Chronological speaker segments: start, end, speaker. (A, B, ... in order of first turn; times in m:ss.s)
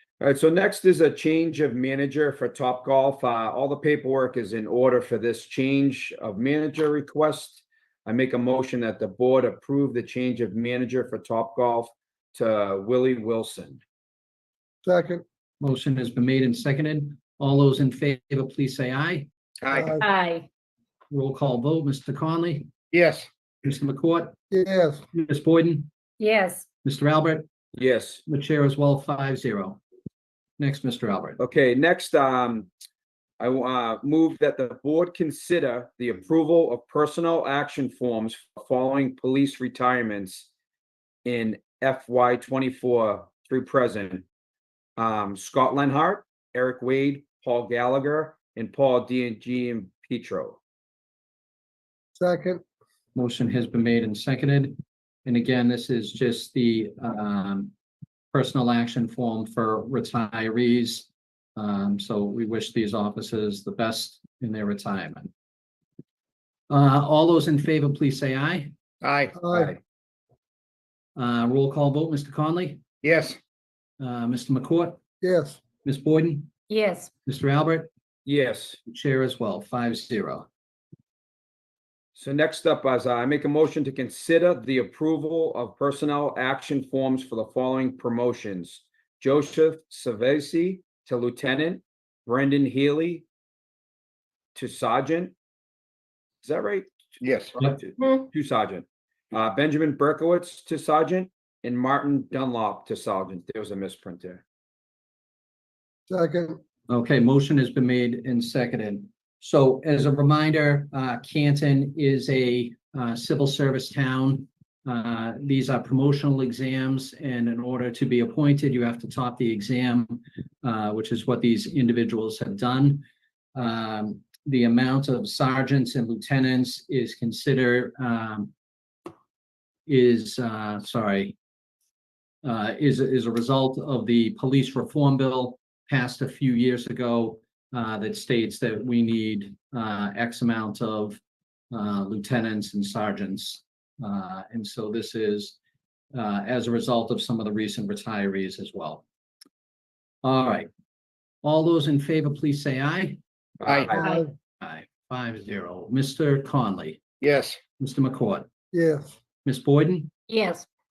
0:00.2-0:13.8 A
0:14.8-0:15.2 B
0:15.6-0:19.3 C
0:19.6-0:20.0 D
0:19.7-0:20.0 B
0:20.0-0:20.5 E
0:21.1-0:22.7 C
0:22.9-0:23.3 D
0:23.6-0:24.4 C
0:24.5-0:25.0 B
0:25.1-0:25.9 C
0:26.2-0:26.6 E
0:26.8-0:27.5 C
0:27.7-0:28.2 A
0:28.3-0:29.8 C
0:30.6-0:31.4 C
0:31.4-0:32.7 A
0:33.4-0:40.5 A
0:41.2-0:44.2 A
0:45.0-0:50.6 A
0:52.2-0:52.6 B
0:53.1-0:57.7 C
0:58.3-1:05.3 C
1:06.7-1:08.7 C
1:09.0-1:09.4 D
1:09.3-1:09.7 B
1:11.2-1:12.8 C
1:13.0-1:13.4 D
1:14.0-1:15.0 C
1:15.2-1:15.6 B
1:15.8-1:16.5 C
1:16.7-1:17.1 E
1:17.2-1:17.9 C
1:18.2-1:18.8 A
1:18.9-1:20.5 C
1:22.1-1:33.2 A
1:34.5-1:35.3 A
1:36.4-1:36.9 A
1:37.2-1:37.6 D
1:37.6-1:44.4 A
1:46.1-1:46.6 B
1:46.9-2:08.5 C
2:09.9-2:11.3 C
2:12.4-2:21.2 C
2:21.7-2:25.6 C
2:26.1-2:29.0 C
2:30.2-2:30.7 C
2:31.4-2:33.2 C
2:33.6-2:34.0 A
2:33.6-2:34.0 D
2:34.0-2:34.3 B
2:34.6-2:37.0 C
2:37.2-2:37.6 D
2:37.8-2:38.5 C
2:38.7-2:39.2 B
2:39.4-2:40.1 C
2:40.3-2:40.6 E